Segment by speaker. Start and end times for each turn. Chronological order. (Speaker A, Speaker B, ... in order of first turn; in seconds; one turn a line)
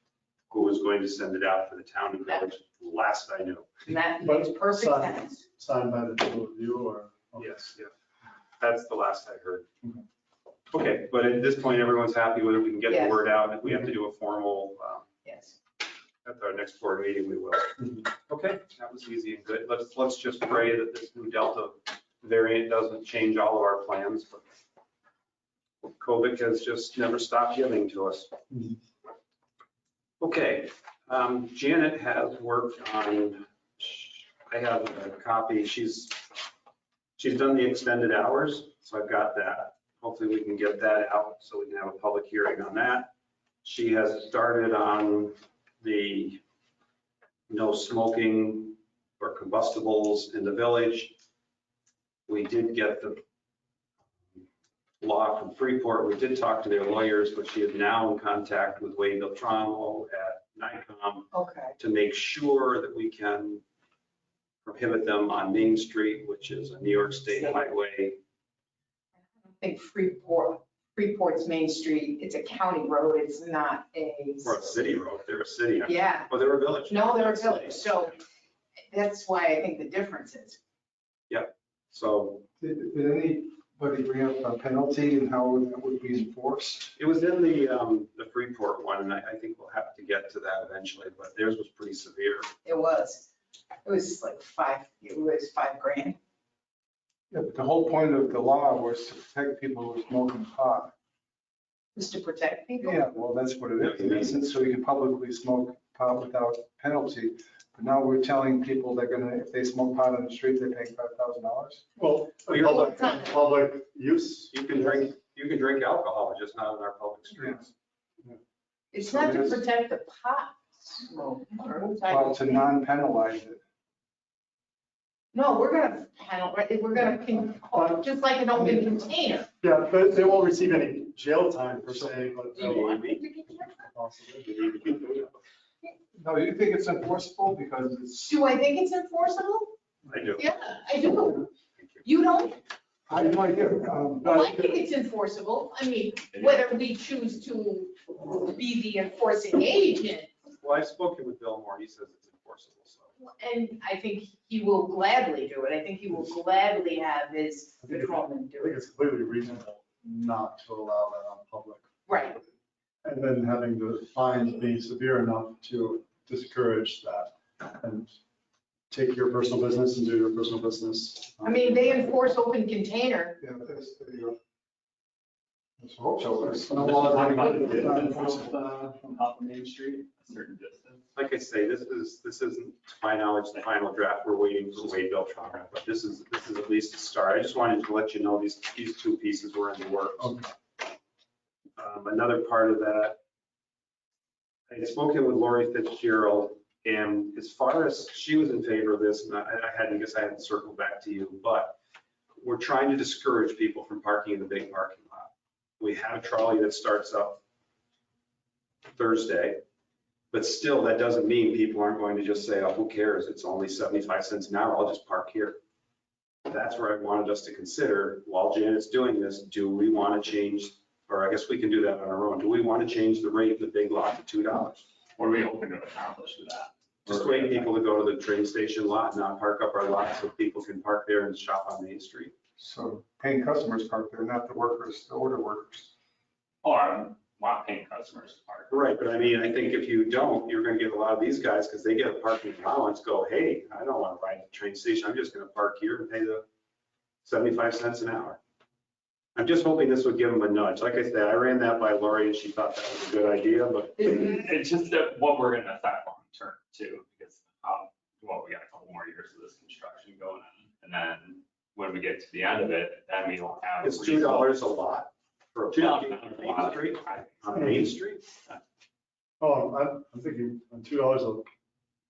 Speaker A: 0.5-3.7
Speaker B: 3.9-5.5
Speaker C: 4.2-7.7
Speaker A: 7.4-7.9
Speaker A: 8.6-9.7
Speaker A: 10.7-15.1
Speaker B: 12.9-13.2
Speaker B: 15.2-15.6
Speaker A: 16.2-24.4
Speaker A: 25.8-28.3
Speaker A: 30.2-36.2
Speaker A: 37.2-43.1
Speaker A: 43.6-46.4
Speaker A: 47.5-51.2
Speaker A: 52.3-53.2
Speaker A: 55.0-63.6
Speaker B: 61.3-61.7
Speaker A: 64.6-68.2
Speaker B: 69.5-74.7
Speaker A: 74.4-78.1
Speaker B: 75.8-76.3
Speaker B: 76.9-78.2
Speaker B: 78.9-80.6
Speaker A: 81.3-82.5
Speaker D: 82.6-86.9
Speaker A: 87.0-92.5
Speaker B: 92.6-93.3
Speaker B: 93.8-96.2
Speaker D: 97.3-100.9
Speaker B: 101.9-103.0
Speaker D: 102.8-111.8
Speaker A: 103.8-104.3
Speaker C: 112.0-115.1
Speaker B: 112.6-113.3
Speaker A: 114.5-117.7
Speaker B: 118.9-122.6
Speaker D: 119.0-119.6
Speaker D: 122.0-123.6
Speaker B: 125.3-129.5
Speaker C: 127.7-128.9
Speaker C: 129.6-133.0
Speaker A: 132.5-133.2
Speaker B: 132.6-133.8
Speaker C: 133.7-134.6
Speaker A: 134.4-135.3
Speaker D: 136.2-138.3
Speaker B: 138.2-139.7
Speaker A: 140.1-140.5
Speaker B: 140.4-141.5
Speaker A: 141.8-142.0
Speaker B: 142.0-142.6
Speaker D: 143.1-144.8
Speaker B: 144.2-150.3
Speaker E: 146.3-146.7
Speaker A: 150.6-153.1
Speaker B: 153.2-158.8
Speaker C: 157.8-162.4
Speaker B: 162.1-162.4
Speaker C: 163.0-168.2
Speaker C: 168.9-172.1
Speaker B: 171.4-173.4
Speaker D: 173.4-174.4
Speaker D: 175.8-178.5
Speaker C: 176.5-178.1
Speaker E: 177.0-181.0
Speaker A: 181.2-190.4
Speaker A: 191.8-193.2
Speaker A: 194.7-201.8
Speaker A: 202.4-207.4
Speaker A: 208.9-209.6
Speaker A: 210.3-215.6
Speaker A: 216.5-224.8
Speaker E: 225.2-227.7
Speaker A: 227.1-232.3
Speaker D: 232.6-235.9
Speaker E: 236.6-238.7
Speaker A: 238.7-246.4
Speaker A: 247.2-248.4
Speaker A: 249.4-254.3
Speaker E: 254.0-264.5
Speaker A: 263.8-268.2
Speaker E: 265.8-267.3
Speaker C: 267.5-267.9
Speaker C: 269.4-271.5